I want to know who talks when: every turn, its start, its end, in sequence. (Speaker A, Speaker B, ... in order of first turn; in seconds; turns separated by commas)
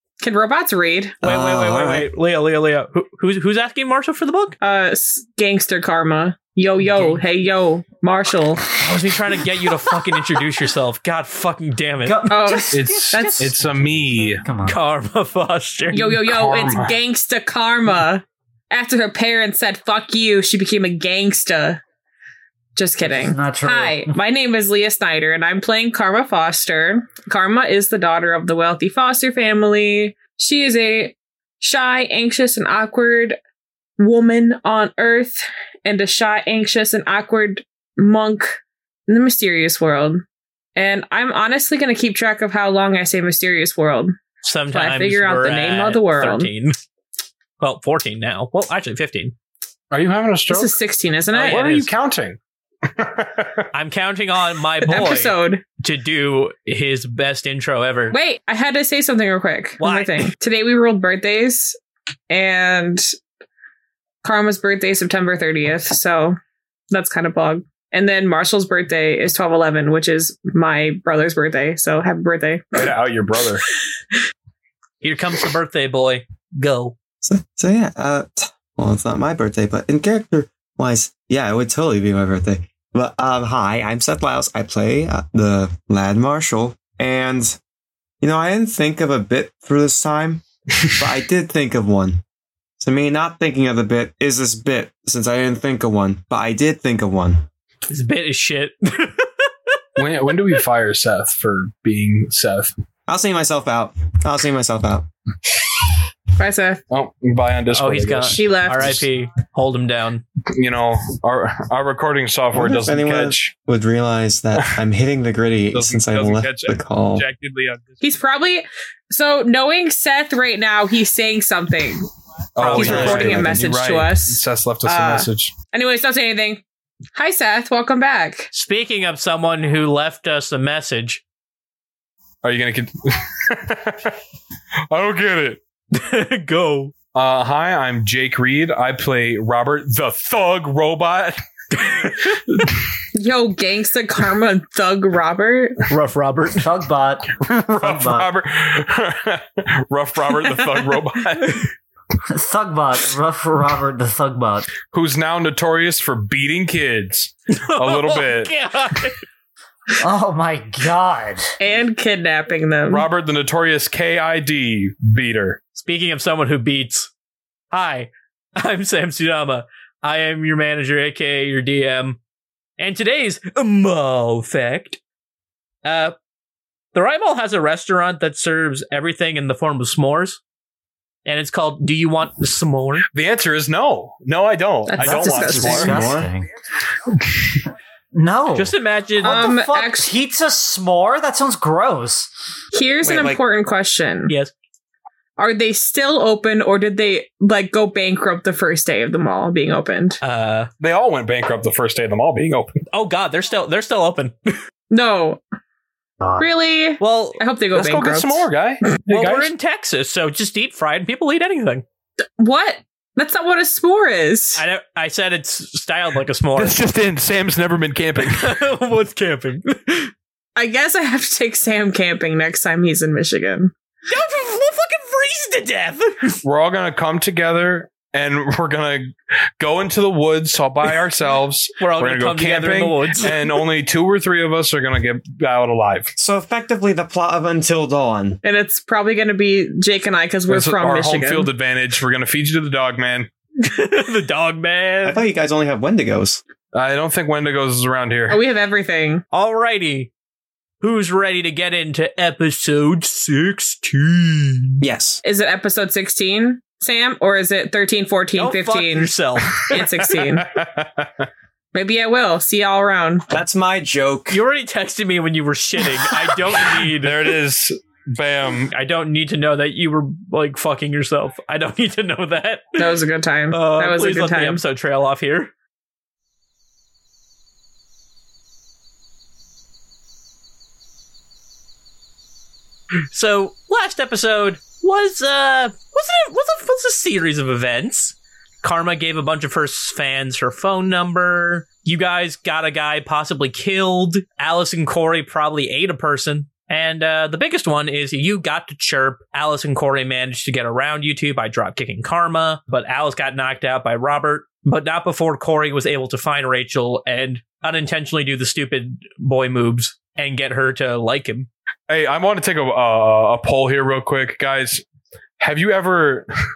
Speaker A: 0.2-1.2, Speaker B: 1.2-2.1, Speaker C: 1.2-4.5, Speaker A: 4.6-8.7, Speaker C: 8.8-12.3, Speaker D: 12.0-14.8, Speaker A: 12.3-13.5, Speaker E: 12.7-14.4, Speaker C: 14.7-16.0, Speaker A: 15.9-21.8, Speaker E: 15.9-16.9, Speaker A: 22.8-33.4, Speaker D: 23.0-24.2, Speaker A: 34.0-40.2, Speaker A: 40.8-44.1, Speaker C: 44.4-46.8, Speaker A: 44.7-46.5, Speaker C: 47.6-49.3, Speaker E: 49.9-50.7, Speaker A: 50.5-51.7, Speaker C: 51.3-51.9, Speaker E: 51.5-53.6, Speaker C: 53.7-58.1, Speaker A: 54.8-55.6, Speaker A: 58.1-61.8, Speaker C: 59.8-60.2, Speaker A: 62.3-63.0, Speaker A: 64.2-66.4, Speaker A: 66.9-72.9, Speaker E: 72.8-73.6, Speaker C: 75.0-76.9, Speaker B: 77.2-87.6, Speaker B: 88.2-92.2, Speaker B: 92.8-97.5, Speaker C: 97.9-99.5, Speaker E: 100.0-102.7, Speaker B: 103.1-105.1, Speaker A: 106.4-106.8, Speaker E: 106.9-109.0, Speaker C: 107.7-110.2, Speaker A: 108.3-109.1, Speaker E: 110.5-113.5, Speaker B: 112.5-117.3, Speaker E: 115.7-118.0, Speaker A: 118.0-126.6, Speaker E: 122.5-125.5, Speaker C: 122.6-123.3, Speaker B: 122.8-123.5, Speaker A: 127.1-128.5, Speaker C: 128.5-131.2, Speaker E: 132.4-134.1, Speaker E: 134.9-135.6, Speaker C: 135.9-136.9, Speaker E: 137.1-141.4, Speaker C: 141.8-142.4, Speaker A: 143.1-145.8, Speaker C: 145.9-146.7, Speaker D: 146.6-148.3, Speaker E: 147.5-151.7, Speaker D: 152.3-154.7, Speaker E: 154.9-158.5, Speaker C: 157.5-159.2, Speaker D: 160.0-161.6, Speaker A: 161.6-163.1, Speaker E: 162.9-165.6, Speaker C: 165.8-167.1, Speaker C: 167.7-172.2, Speaker C: 172.8-175.0, Speaker C: 175.8-176.1, Speaker C: 176.9-180.4, Speaker C: 181.2-183.1, Speaker E: 183.1-186.0, Speaker A: 184.9-186.0, Speaker D: 185.3-186.5, Speaker B: 185.6-186.3, Speaker D: 188.1-192.3, Speaker C: 188.6-189.4, Speaker A: 189.2-190.1, Speaker A: 192.7-194.3, Speaker B: 193.0-193.4, Speaker A: 195.4-200.2, Speaker C: 200.2-200.7, Speaker E: 200.8-202.7, Speaker C: 202.9-204.6, Speaker A: 204.9-205.4, Speaker D: 206.2-206.5, Speaker A: 206.4-208.4, Speaker C: 207.0-207.4, Speaker E: 207.7-209.5, Speaker C: 209.1-211.8, Speaker A: 212.4-214.6, Speaker C: 214.6-216.8, Speaker E: 216.6-218.6, Speaker C: 218.2-220.1, Speaker A: 220.6-223.7, Speaker C: 224.1-226.4, Speaker E: 226.4-236.1, Speaker C: 231.8-233.5, Speaker B: 236.2-238.4, Speaker A: 238.4-241.5, Speaker E: 240.5-243.3, Speaker C: 243.6-245.2, Speaker B: 245.1-246.4, Speaker E: 246.7-248.4, Speaker A: 248.3-249.2, Speaker C: 249.3-250.1, Speaker C: 250.8-254.8, Speaker B: 254.8-255.2, Speaker A: 255.2-260.5, Speaker C: 258.4-259.9, Speaker E: 260.4-261.1, Speaker A: 261.7-263.2, Speaker B: 263.3-264.4, Speaker C: 264.3-267.3, Speaker E: 266.8-268.7, Speaker C: 268.7-272.9, Speaker A: 272.8-274.6, Speaker C: 273.5-275.5, Speaker C: 283.1-311.5, Speaker E: 311.9-314.8, Speaker E: 315.4-316.3